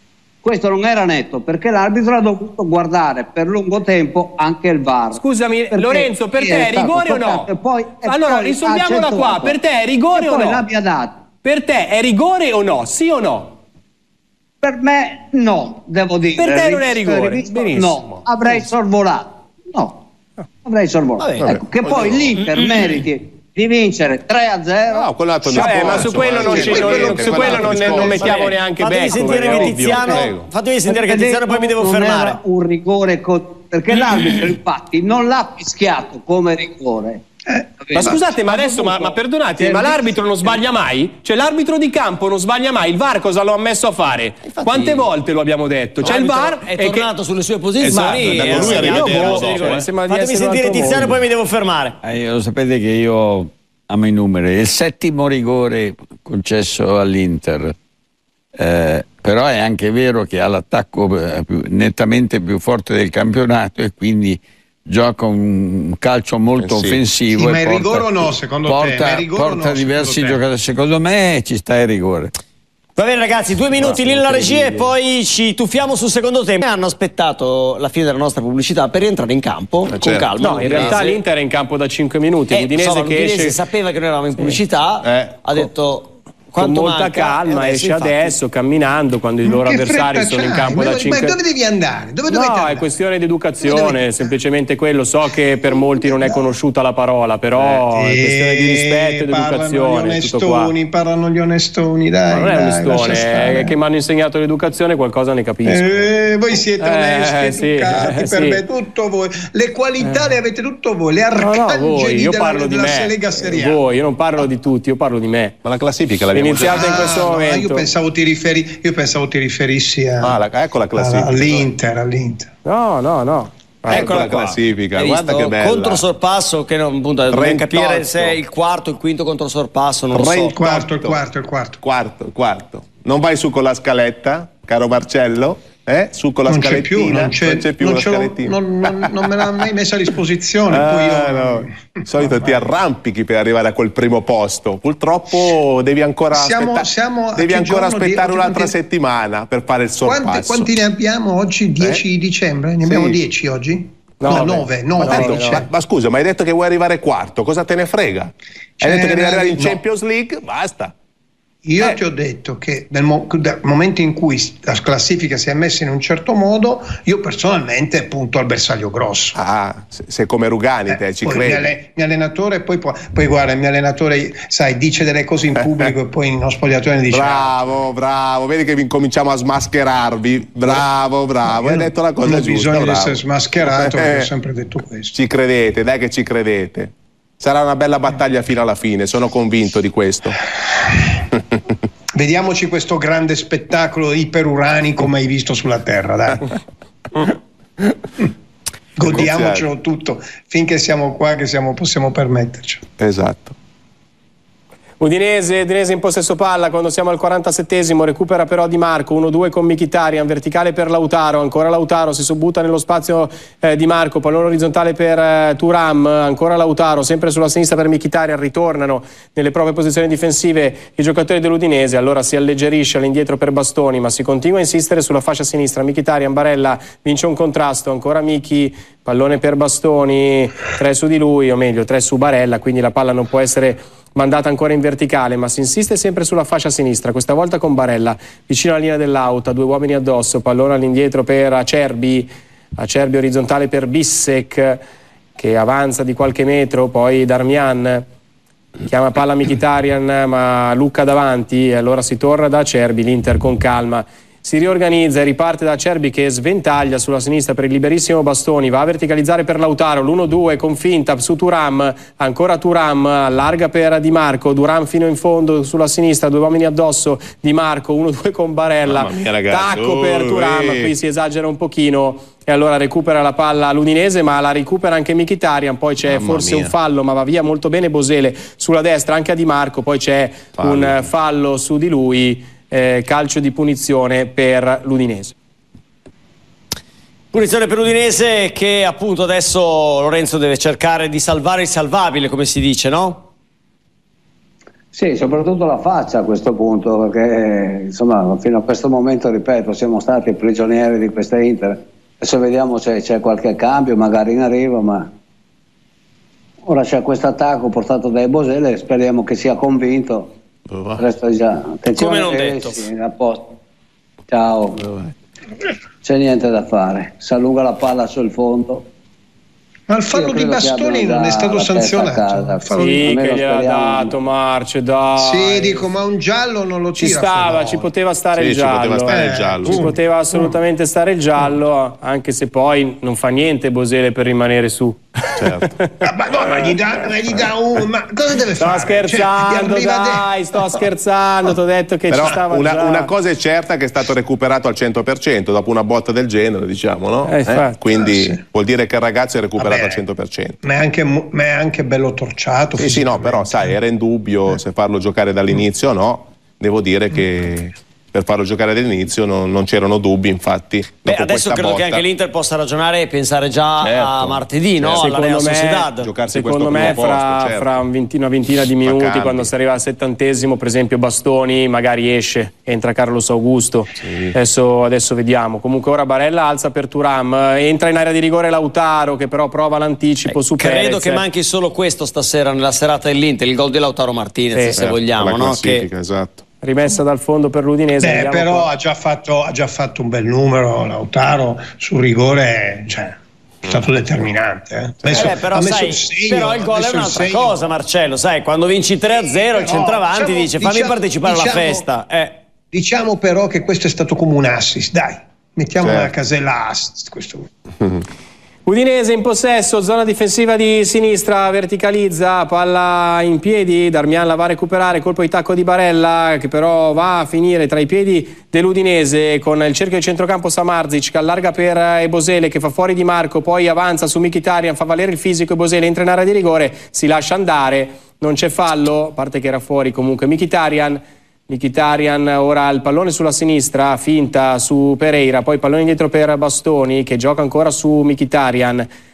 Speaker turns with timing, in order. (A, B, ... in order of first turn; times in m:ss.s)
0:00.4-0:09.6 A
0:05.1-0:07.5 B
0:08.0-0:10.6 B
0:10.1-0:11.2 A
0:11.4-0:13.5 B
0:14.6-0:20.0 A
0:16.4-0:18.0 B
0:20.6-0:26.2 A
0:21.2-0:21.5 C
0:21.4-0:22.4 D
0:24.9-0:28.5 D
0:25.5-0:30.2 B
0:26.5-0:27.6 E
0:26.5-0:32.4 C
0:30.1-0:30.5 D
0:30.8-0:37.2 A
0:37.5-0:38.2 E
0:37.8-0:40.0 A
0:37.9-0:47.1 B
0:44.4-0:45.1 C
0:46.0-0:52.0 C
0:47.8-0:49.9 D
0:47.9-0:51.2 B
0:52.0-0:57.7 F
0:58.6-1:12.3 F
1:06.6-1:07.0 D
1:07.3-1:10.4 E
1:13.0-1:21.2 C
1:13.8-1:14.8 D
1:19.9-1:20.3 D
1:20.4-1:23.6 B
1:22.5-1:28.4 C
1:25.0-1:25.4 D
1:26.6-1:31.4 B
1:29.4-1:32.9 E
1:32.3-1:40.7 B
1:33.6-1:34.3 E
1:35.7-1:36.5 E
1:37.6-1:43.8 E
1:42.3-1:46.1 B
1:45.6-1:53.8 E
1:46.8-1:48.6 B
1:50.0-1:50.3 B
1:51.4-1:55.5 B
1:55.6-1:57.2 D
1:56.3-1:57.9 B
1:56.6-2:00.4 E
2:00.2-2:01.7 D
2:00.9-2:02.5 E
2:02.6-2:04.3 B
2:03.9-2:06.0 D
2:03.9-2:10.6 C
2:07.3-2:08.4 D
2:10.1-2:11.2 D
2:10.5-2:11.8 E
2:11.8-2:19.5 D
2:16.5-2:22.6 E
2:20.7-2:30.7 D
2:26.3-2:28.8 E
2:30.0-2:35.7 E
2:32.8-2:33.2 D
2:34.2-2:35.6 B
2:35.0-2:40.9 D
2:38.8-2:39.8 E
2:41.6-2:49.4 E
2:49.3-2:51.7 D
2:50.9-2:57.5 E
2:57.1-3:04.3 D
3:01.5-3:05.1 E
3:05.1-3:10.4 D
3:12.1-3:16.6 E
3:19.0-3:22.8 E
3:19.0-3:19.7 D
3:23.0-3:23.5 D
3:25.0-4:04.8 B
4:05.4-4:08.0 B
4:08.8-4:45.3 B
4:28.8-4:30.9 D
4:36.1-4:36.7 D
4:40.6-4:41.0 D
4:47.3-4:53.3 C
4:54.9-5:05.1 A
5:06.6-5:10.3 A
5:10.7-5:11.0 D
5:11.0-5:13.6 A
5:11.9-5:12.8 C
5:14.3-5:14.9 A
5:16.0-5:18.9 A
5:19.9-5:23.1 E
5:20.1-5:24.1 A
5:22.7-5:25.9 B
5:25.2-5:27.9 E
5:27.0-5:29.1 B
5:28.4-5:29.9 D
5:29.1-5:30.5 E
5:29.6-5:35.9 B
5:35.3-5:35.7 D
5:36.0-5:40.8 E
5:38.6-5:43.1 B
5:42.1-5:50.6 D
5:47.2-5:47.8 B
5:47.9-5:48.4 E
5:49.6-5:50.0 E
5:50.6-5:53.7 E
5:52.8-6:02.0 D
6:01.0-6:06.1 C
6:03.8-6:05.1 D
6:04.9-6:21.2 B
6:06.0-6:07.7 D
6:08.8-6:09.5 D
6:14.0-6:14.3 D
6:20.6-6:25.9 C
6:24.5-6:24.8 B
6:24.7-6:26.4 D
6:26.6-6:28.7 B
6:28.0-6:37.6 E
6:35.0-6:35.4 D
6:35.1-6:42.4 C
6:39.1-6:41.8 E
6:42.7-6:47.5 E
6:45.8-6:46.1 D
6:48.6-7:18.9 B